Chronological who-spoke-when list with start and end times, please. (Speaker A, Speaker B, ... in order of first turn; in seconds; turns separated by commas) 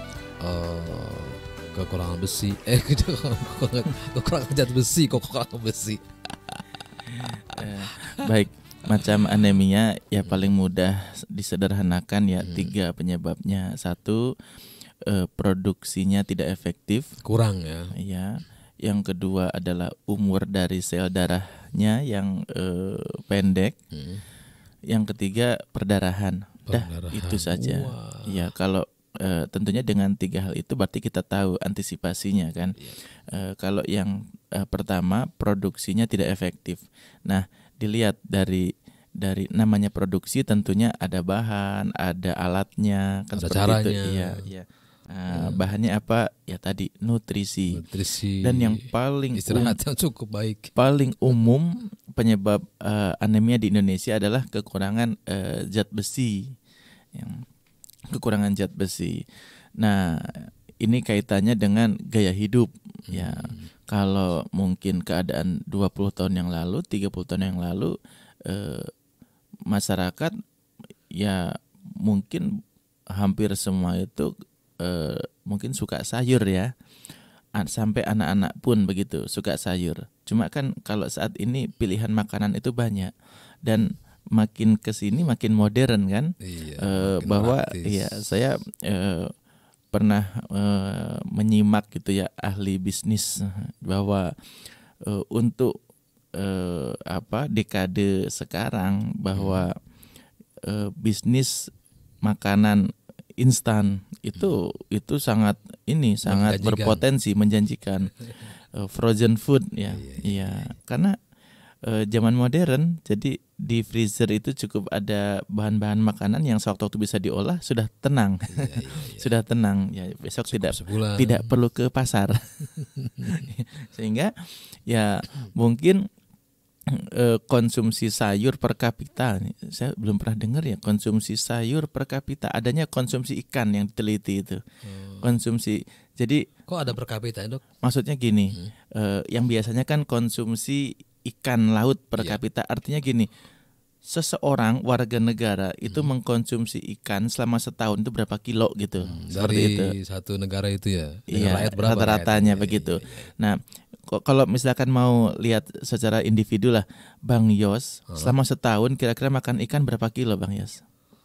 Speaker A: 0.4-6.0, Speaker B: 7.1-14.3, Speaker A: 7.2-8.2, Speaker A: 12.4-12.7, Speaker B: 15.0-17.2, Speaker A: 17.2-17.9, Speaker B: 17.9-23.8, Speaker A: 23.9-24.2, Speaker B: 24.9-32.7, Speaker A: 26.7-28.5, Speaker B: 33.3-47.8, Speaker A: 43.4-44.5, Speaker A: 45.3-45.6, Speaker A: 47.7-50.7, Speaker B: 48.4-49.8, Speaker B: 50.8-56.5, Speaker B: 57.1-57.4, Speaker B: 58.1-59.2, Speaker B: 59.8-67.9, Speaker A: 63.1-63.7, Speaker B: 68.5-68.9, Speaker B: 69.7-70.3, Speaker B: 71.2-72.5, Speaker B: 73.1-76.7, Speaker B: 77.6-83.1, Speaker B: 83.6-89.3, Speaker A: 86.4-88.2, Speaker B: 89.9-94.3, Speaker B: 95.0-95.8, Speaker B: 96.3-99.8, Speaker A: 99.3-99.7, Speaker B: 100.6-101.7, Speaker B: 102.2-102.8, Speaker B: 103.4-108.1, Speaker A: 106.2-107.0, Speaker B: 108.7-111.2, Speaker A: 109.9-110.7, Speaker B: 111.8-122.7, Speaker A: 118.5-119.3, Speaker A: 120.5-121.5, Speaker A: 122.8-123.4, Speaker B: 123.2-126.0, Speaker B: 126.9-134.6, Speaker A: 134.8-135.3, Speaker B: 135.2-136.4, Speaker A: 136.7-137.6, Speaker B: 137.8-143.3, Speaker B: 144.0-149.9, Speaker A: 149.0-153.3, Speaker B: 151.3-160.8, Speaker A: 158.1-158.3